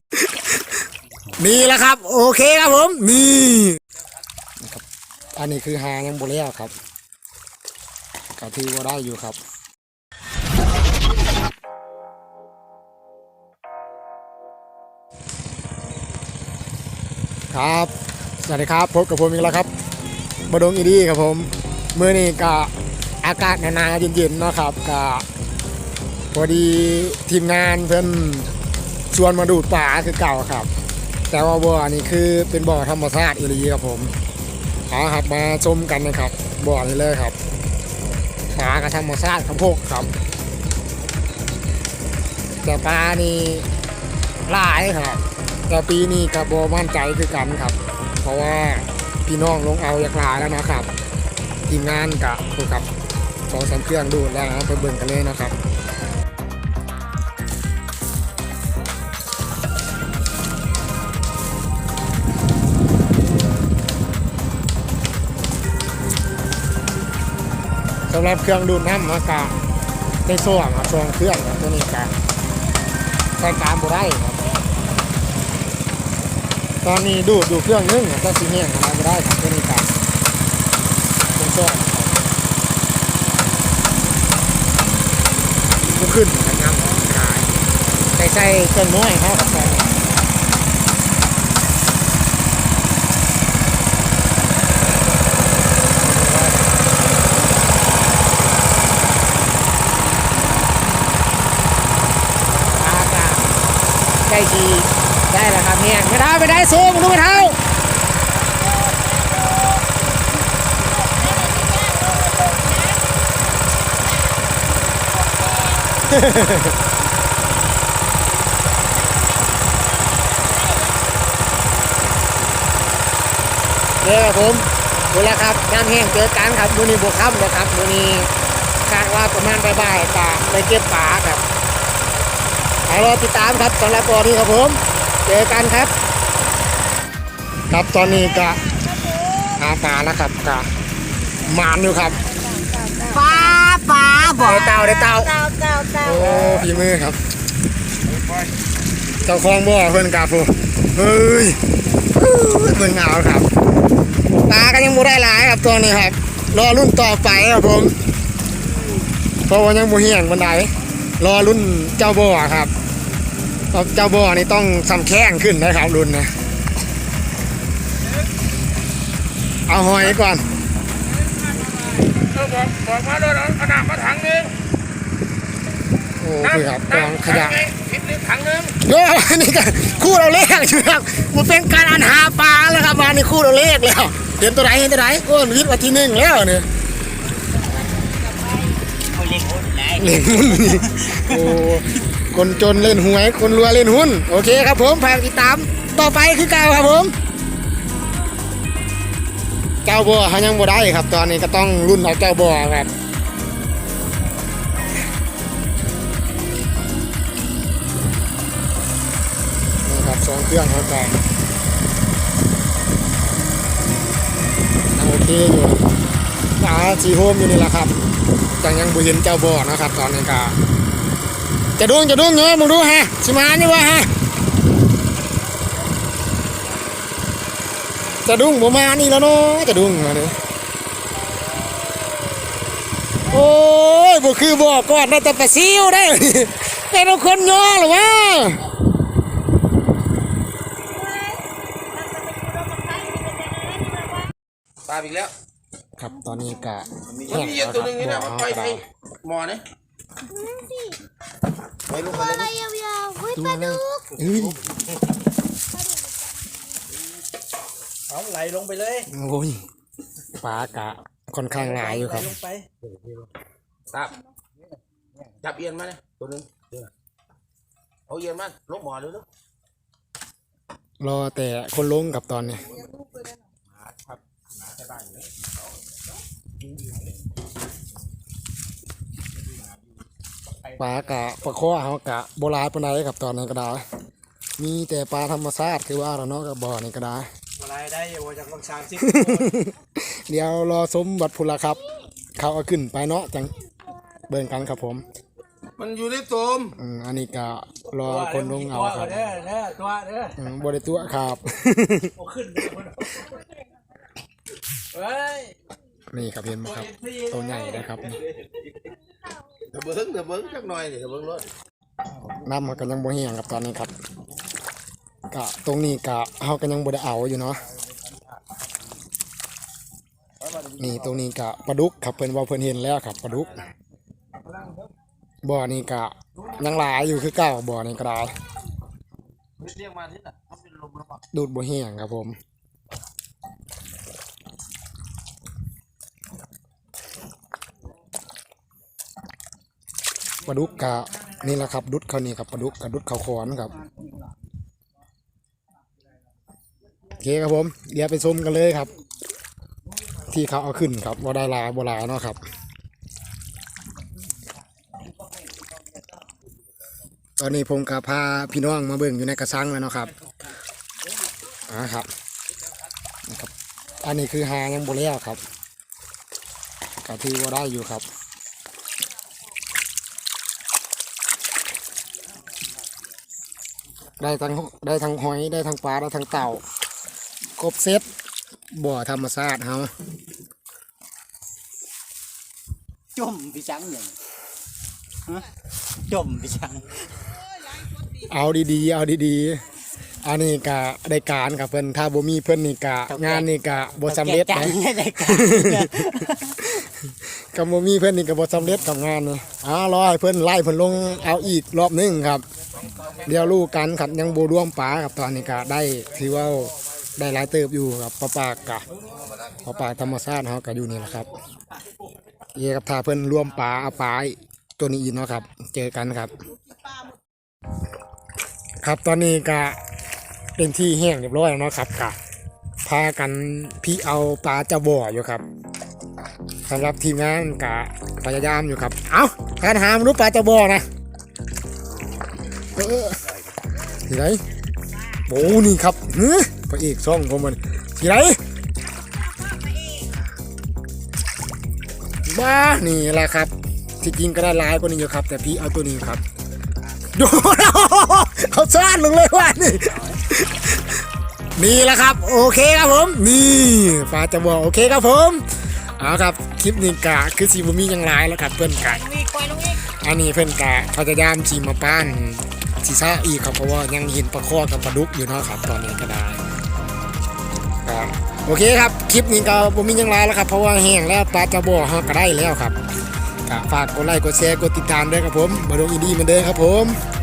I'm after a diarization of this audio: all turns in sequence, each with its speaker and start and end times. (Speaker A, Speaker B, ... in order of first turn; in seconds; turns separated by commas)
Speaker A: 0.2-0.6, Speaker A: 1.4-3.8, Speaker A: 5.4-6.7, Speaker A: 8.4-9.4, Speaker A: 17.5-19.7, Speaker A: 20.5-22.7, Speaker A: 23.2-25.3, Speaker A: 26.3-28.5, Speaker A: 29.1-30.7, Speaker A: 31.3-34.1, Speaker A: 34.9-37.4, Speaker A: 38.5-40.1, Speaker A: 42.6-43.7, Speaker A: 44.5-50.9, Speaker A: 51.7-52.9, Speaker A: 53.5-55.5, Speaker A: 68.1-69.5, Speaker A: 70.3-72.1, Speaker A: 73.4-74.4, Speaker A: 76.8-79.9, Speaker A: 81.3-82.2, Speaker A: 85.9-87.5, Speaker A: 88.2-89.9, Speaker A: 96.0-96.7, Speaker A: 102.5-103.5, Speaker A: 104.3-107.6, Speaker B: 108.3-109.9, Speaker B: 110.8-116.2, Speaker A: 116.1-116.8, Speaker B: 119.0-121.0, Speaker A: 124.0-128.3, Speaker A: 128.9-131.4, Speaker A: 132.9-135.9, Speaker A: 137.7-138.6, Speaker B: 138.1-139.7, Speaker A: 139.6-140.7, Speaker A: 141.4-142.2, Speaker B: 141.9-143.6, Speaker C: 143.1-144.5, Speaker B: 144.3-146.7, Speaker A: 144.4-145.3, Speaker A: 146.0-147.2, Speaker A: 149.2-151.6, Speaker A: 152.1-153.5, Speaker A: 154.4-157.9, Speaker A: 159.5-162.7, Speaker A: 163.7-166.3, Speaker A: 169.7-170.4, Speaker D: 172.1-174.6, Speaker A: 176.2-177.7, Speaker D: 176.5-178.8, Speaker A: 178.8-186.7, Speaker C: 189.1-190.1, Speaker A: 190.0-197.2, Speaker A: 199.8-202.9, Speaker A: 209.8-211.2, Speaker A: 214.9-215.8, Speaker A: 216.6-217.9, Speaker A: 218.6-220.6, Speaker A: 221.8-224.1, Speaker A: 228.2-230.4, Speaker A: 233.3-238.6, Speaker B: 240.9-244.3, Speaker D: 244.9-245.3, Speaker A: 246.0-248.8, Speaker D: 247.2-249.6, Speaker B: 250.3-251.0, Speaker D: 251.9-252.5, Speaker B: 251.9-254.1, Speaker A: 253.3-254.6, Speaker E: 258.1-259.1, Speaker A: 259.1-259.6, Speaker A: 260.4-262.3, Speaker E: 261.6-262.6, Speaker D: 262.8-263.3, Speaker D: 263.9-264.2, Speaker D: 265.4-266.9, Speaker D: 268.1-269.3, Speaker A: 271.0-272.7, Speaker A: 280.8-283.8, Speaker A: 284.6-287.3, Speaker E: 287.6-289.6, Speaker A: 289.0-293.5, Speaker A: 294.3-295.1, Speaker D: 295.8-296.8, Speaker A: 296.8-299.4, Speaker E: 298.0-300.4, Speaker A: 300.4-302.1, Speaker E: 302.2-303.2, Speaker E: 304.9-305.6, Speaker A: 306.1-308.2, Speaker E: 306.6-307.9, Speaker D: 309.7-311.5, Speaker A: 312.3-313.9, Speaker A: 315.3-317.6, Speaker A: 320.8-323.6, Speaker A: 325.4-328.3, Speaker D: 329.6-331.2, Speaker A: 331.3-332.4, Speaker A: 340.4-343.7, Speaker A: 347.2-348.9, Speaker A: 350.3-352.4, Speaker A: 357.4-360.1, Speaker A: 361.7-362.1, Speaker A: 364.0-365.4, Speaker A: 367.0-368.0, Speaker A: 374.2-376.6, Speaker A: 377.6-378.1, Speaker A: 378.7-379.9, Speaker C: 383.1-384.1, Speaker C: 386.1-386.9, Speaker A: 388.1-389.6, Speaker A: 390.2-402.4, Speaker C: 393.1-393.5, Speaker C: 394.1-395.8, Speaker A: 403.2-408.9, Speaker A: 409.6-411.3, Speaker A: 412.6-416.3, Speaker A: 418.8-419.8, Speaker A: 420.6-422.2, Speaker A: 422.9-425.4, Speaker A: 426.7-430.9, Speaker A: 432.7-433.2, Speaker A: 434.0-434.4, Speaker A: 435.3-438.4, Speaker A: 442.3-446.2, Speaker A: 447.1-451.0, Speaker A: 451.6-455.4, Speaker A: 456.0-459.1, Speaker C: 459.3-459.6, Speaker A: 459.8-466.4, Speaker A: 467.9-472.8, Speaker A: 473.5-477.0